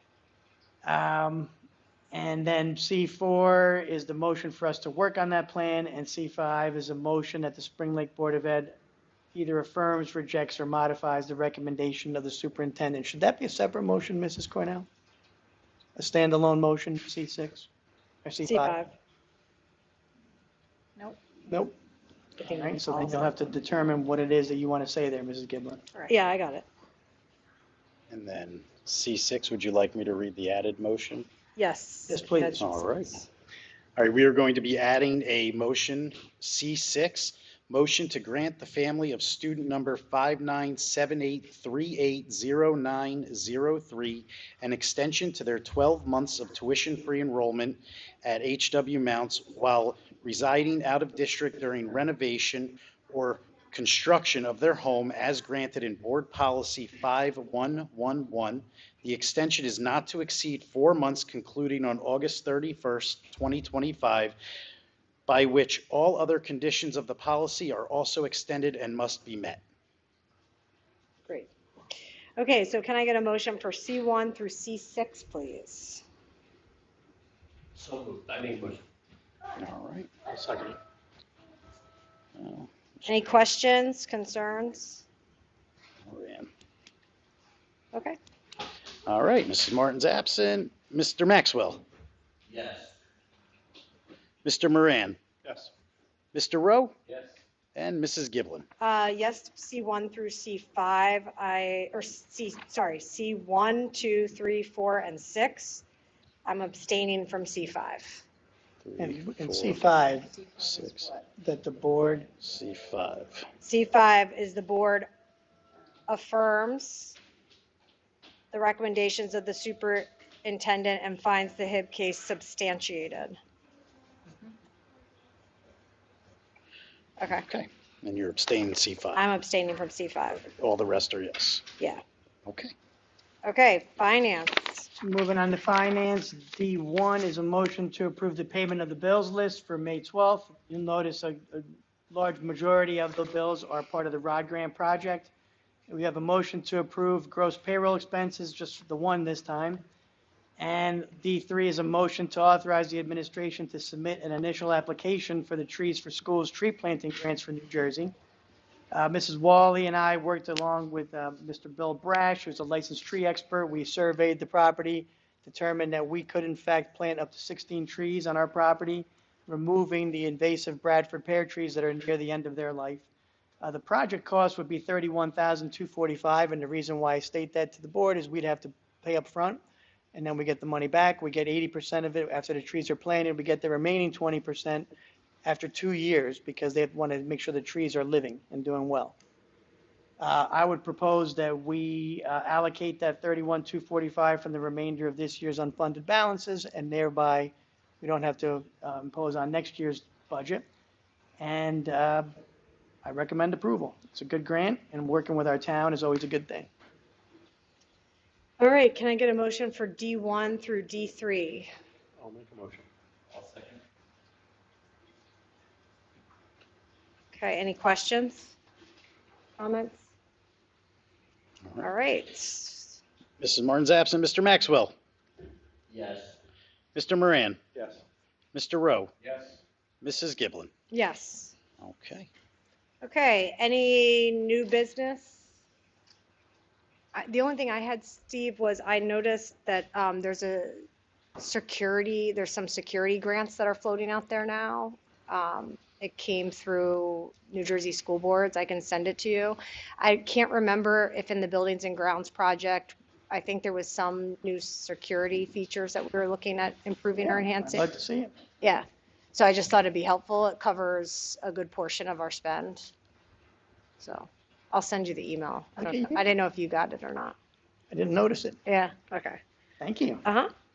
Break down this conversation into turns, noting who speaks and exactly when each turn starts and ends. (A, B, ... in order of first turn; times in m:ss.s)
0:00.8-0:01.5 A
0:02.1-0:08.8 A
0:09.3-0:14.9 A
0:16.0-0:17.7 A
0:18.2-0:18.8 A
0:18.4-0:18.9 B
0:22.4-0:23.0 B
0:22.4-0:25.8 A
0:26.0-0:26.6 B
0:28.1-0:31.3 C
0:31.6-0:33.2 B
0:32.1-0:32.6 A
0:32.6-0:33.2 C
0:34.0-1:04.4 C
1:05.3-1:09.6 C
1:12.4-1:16.0 B
1:17.8-1:18.8 D
1:19.6-1:20.1 C
1:20.4-1:20.7 D
1:22.4-1:23.1 C
1:23.0-1:25.0 B
1:26.0-1:26.5 C
1:29.0-1:31.8 C
1:32.5-1:32.9 D
1:34.4-1:35.2 C
1:36.3-1:36.9 C
1:37.8-1:38.7 C
1:38.8-1:45.8 B
1:46.4-1:48.2 B
1:48.8-1:49.8 C
1:49.0-1:50.3 A
1:50.6-1:51.1 C
1:51.3-1:52.3 A
1:52.4-1:53.5 C
1:53.6-1:55.1 B
1:56.1-1:57.2 B
1:58.5-2:03.4 B
2:07.4-2:09.2 C
2:09.2-2:10.5 B
2:10.6-2:11.6 C
2:12.4-2:12.7 C
2:13.4-2:14.9 B
2:15.0-2:25.3 A
2:25.9-2:29.8 A
2:30.6-2:38.1 A
2:38.9-2:53.1 A
2:53.6-2:59.6 A
3:00.1-3:04.9 A
3:05.4-3:09.2 A
3:10.2-3:20.7 A
3:21.4-3:22.3 A
3:23.0-3:26.7 A
3:28.6-3:31.7 B
3:32.2-3:33.8 D
3:37.3-3:38.5 B
3:39.6-3:40.0 B
3:41.8-3:43.0 B
3:43.4-3:44.9 C
3:45.9-3:46.4 D
3:46.9-3:47.6 C
3:48.5-3:49.1 C
3:49.2-3:49.6 D
3:50.0-3:50.7 C
3:50.9-3:51.5 B
3:51.8-3:52.3 C
3:53.0-3:55.4 B
3:57.1-4:00.9 B
4:01.4-4:17.9 B
4:17.7-4:18.3 A
4:18.6-4:22.9 B
4:24.0-4:27.3 B
4:25.8-4:26.2 A
4:27.9-4:28.6 A
4:28.6-4:29.4 B
4:29.8-4:30.2 A
4:30.2-4:30.5 B